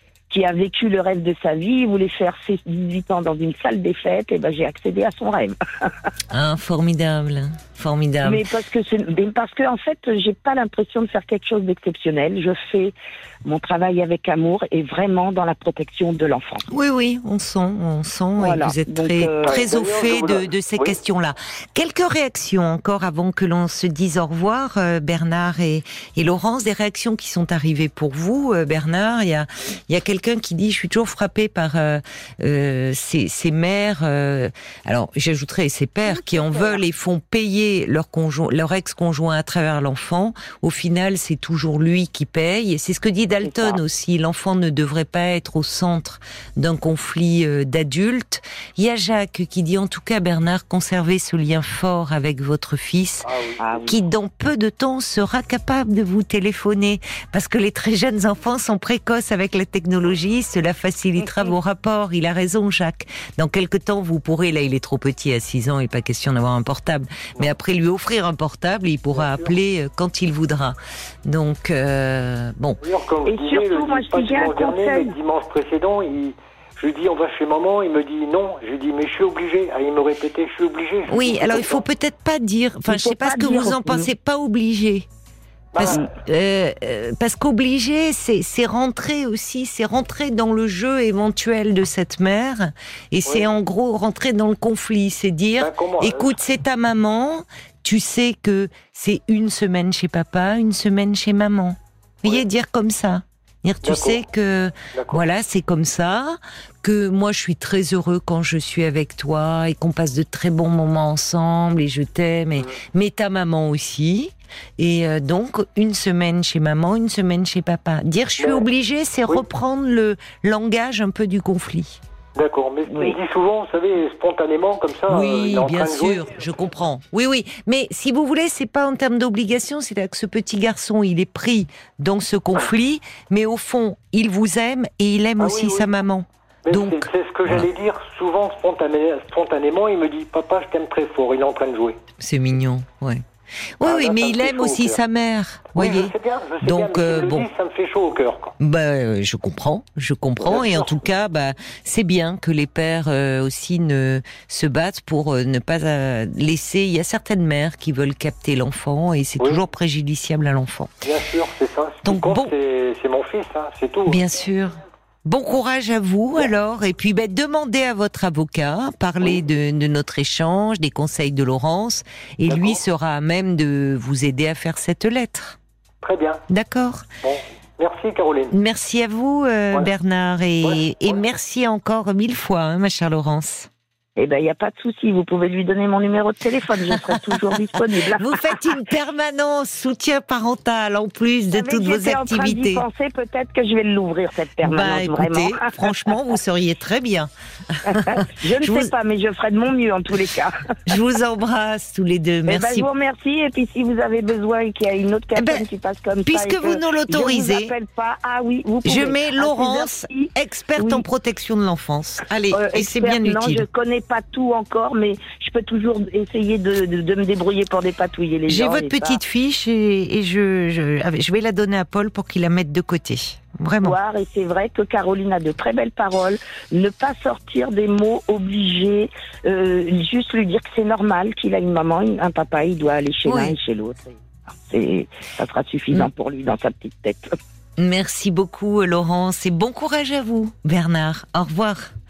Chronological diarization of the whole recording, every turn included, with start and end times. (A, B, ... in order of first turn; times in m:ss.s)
0:00.3-0:06.1 A
0:06.3-0:08.4 B
0:08.2-0:16.6 A
0:16.7-0:53.3 B
0:18.4-0:19.6 A
0:19.4-0:20.9 C
0:36.0-0:36.8 A
0:43.4-0:43.8 A
0:53.2-0:53.9 C
0:53.6-0:54.0 A
0:53.9-1:12.8 B
1:01.2-1:01.5 A
1:09.1-1:09.5 C
1:12.8-1:21.8 C
1:13.2-1:15.2 A
1:21.1-1:25.1 B
1:22.9-1:24.1 A
1:25.7-1:26.0 C
1:25.8-2:02.0 B
1:35.6-1:36.3 C
1:43.8-1:44.2 C
1:44.9-1:45.2 C
1:58.4-1:58.6 C
2:02.4-2:06.3 C
2:02.8-2:03.2 A
2:05.1-2:17.7 B
2:15.4-2:15.9 C
2:16.6-2:22.0 C
2:22.2-2:23.2 B
2:23.8-2:27.5 B
2:23.8-2:25.0 C
2:25.7-2:28.5 C
2:28.6-2:40.9 B
2:30.4-2:30.9 C
2:41.0-2:44.2 C
2:42.0-2:42.5 B
2:44.0-2:55.6 B
2:52.5-2:52.8 C
2:56.0-2:56.4 C
2:56.5-2:57.0 B
2:57.2-2:58.5 C
2:58.5-3:03.7 B
3:00.6-3:01.2 C
3:04.2-3:08.6 A
3:07.1-3:07.5 B
3:08.0-3:12.8 B
3:11.5-3:16.2 A
3:14.6-3:18.9 B
3:17.8-3:21.0 A
3:20.8-3:22.9 B
3:22.5-3:31.0 A
3:25.3-3:25.6 B
3:26.2-3:27.7 B
3:28.8-3:33.6 B
3:32.5-3:39.2 A
3:38.5-3:44.0 B
3:43.8-3:54.1 A
3:53.2-3:53.6 B
3:54.6-3:57.3 A
3:57.8-4:01.9 B